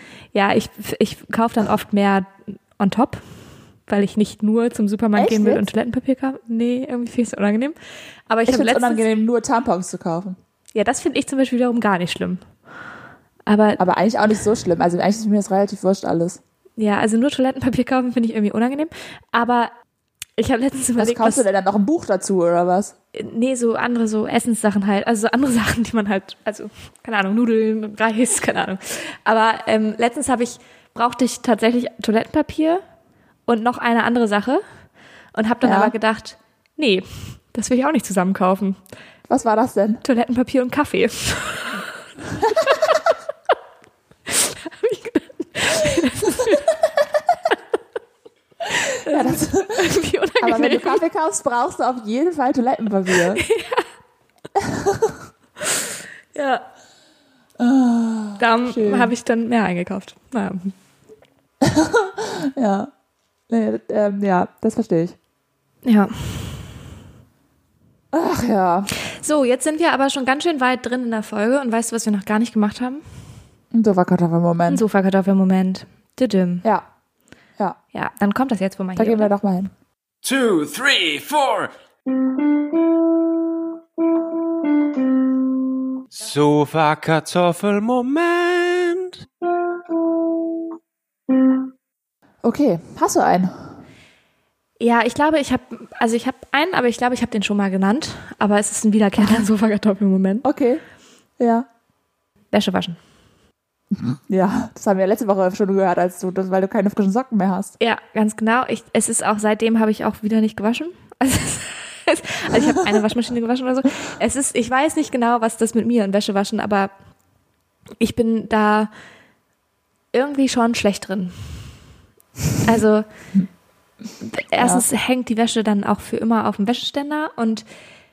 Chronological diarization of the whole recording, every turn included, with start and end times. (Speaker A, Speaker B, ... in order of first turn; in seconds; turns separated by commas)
Speaker A: 0.3-3.3, Speaker A: 3.9-7.8, Speaker B: 5.2-5.7, Speaker A: 8.3-9.1, Speaker B: 8.5-10.4, Speaker A: 10.7-12.4, Speaker A: 13.5-13.8, Speaker B: 13.8-16.4, Speaker A: 16.8-19.7, Speaker A: 20.4-21.4, Speaker B: 21.0-22.9, Speaker A: 23.1-32.8, Speaker A: 33.5-34.6, Speaker A: 35.3-38.8, Speaker B: 35.6-35.9, Speaker B: 39.3-40.0, Speaker A: 40.0-41.9, Speaker B: 42.4-42.7, Speaker A: 42.5-42.8, Speaker A: 44.3-46.8, Speaker A: 48.7-51.0, Speaker B: 48.9-49.9, Speaker B: 50.4-53.4, Speaker A: 53.1-53.9, Speaker B: 54.6-55.2, Speaker A: 55.6-56.7, Speaker B: 57.6-59.1, Speaker A: 58.4-60.8, Speaker B: 61.6-62.9, Speaker B: 63.5-65.2, Speaker A: 65.8-66.7, Speaker B: 68.1-68.9, Speaker A: 69.0-73.0, Speaker B: 73.7-74.8, Speaker A: 74.7-76.7, Speaker A: 77.9-79.3, Speaker B: 79.0-79.7, Speaker C: 80.2-81.7, Speaker C: 86.1-89.3, Speaker B: 92.4-93.7, Speaker A: 94.8-100.5, Speaker B: 100.4-100.8, Speaker B: 101.4-101.7, Speaker A: 102.5-103.0, Speaker B: 103.9-107.7, Speaker A: 107.8-116.9, Speaker A: 118.0-118.9, Speaker A: 120.1-121.7, Speaker A: 122.6-123.1, Speaker A: 124.2-127.7, Speaker B: 124.6-124.8